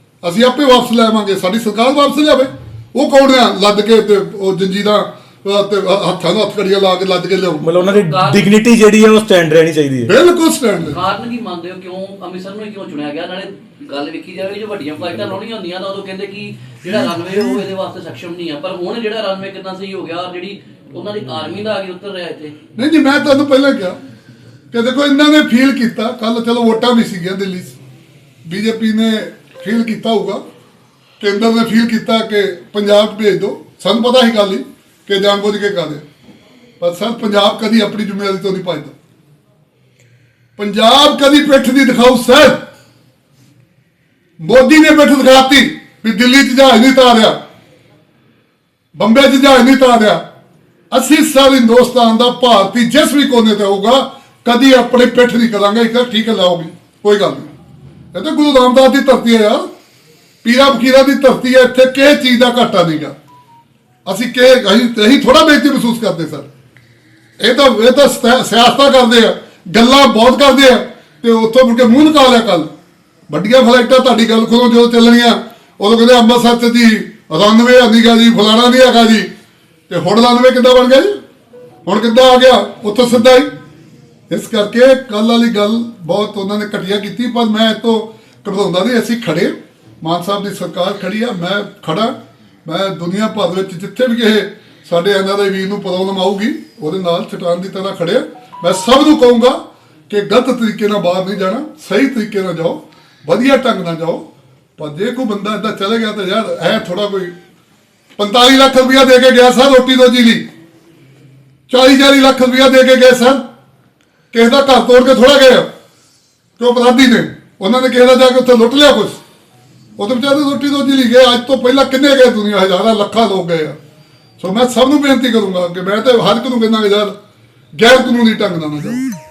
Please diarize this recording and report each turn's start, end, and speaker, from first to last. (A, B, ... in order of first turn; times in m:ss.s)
0:00.2-0:07.6 A
0:07.6-0:10.1 B
0:07.7-0:08.4 C
0:10.1-0:11.0 A
0:10.9-0:22.5 C
0:22.8-0:24.0 A
0:24.7-0:27.8 A
0:28.4-0:30.4 A
0:31.2-0:36.0 A
0:36.8-0:38.9 A
0:40.6-0:42.6 A
0:44.4-0:47.4 A
0:49.0-0:50.2 A
0:50.9-0:57.5 A
0:58.1-0:59.7 A
1:00.4-1:03.2 A
1:04.0-1:06.5 A
1:07.4-1:12.7 A
1:13.3-1:19.3 A
1:19.9-1:21.2 A
1:21.8-1:23.5 A
1:24.3-1:32.1 A
1:32.6-1:44.2 A
1:44.8-1:47.4 A
1:48.2-1:50.5 A
1:51.7-1:53.4 A
1:54.3-1:55.7 A
1:56.6-1:59.2 A
2:00.0-2:03.8 A
2:04.4-2:07.2 A
2:07.7-2:09.0 A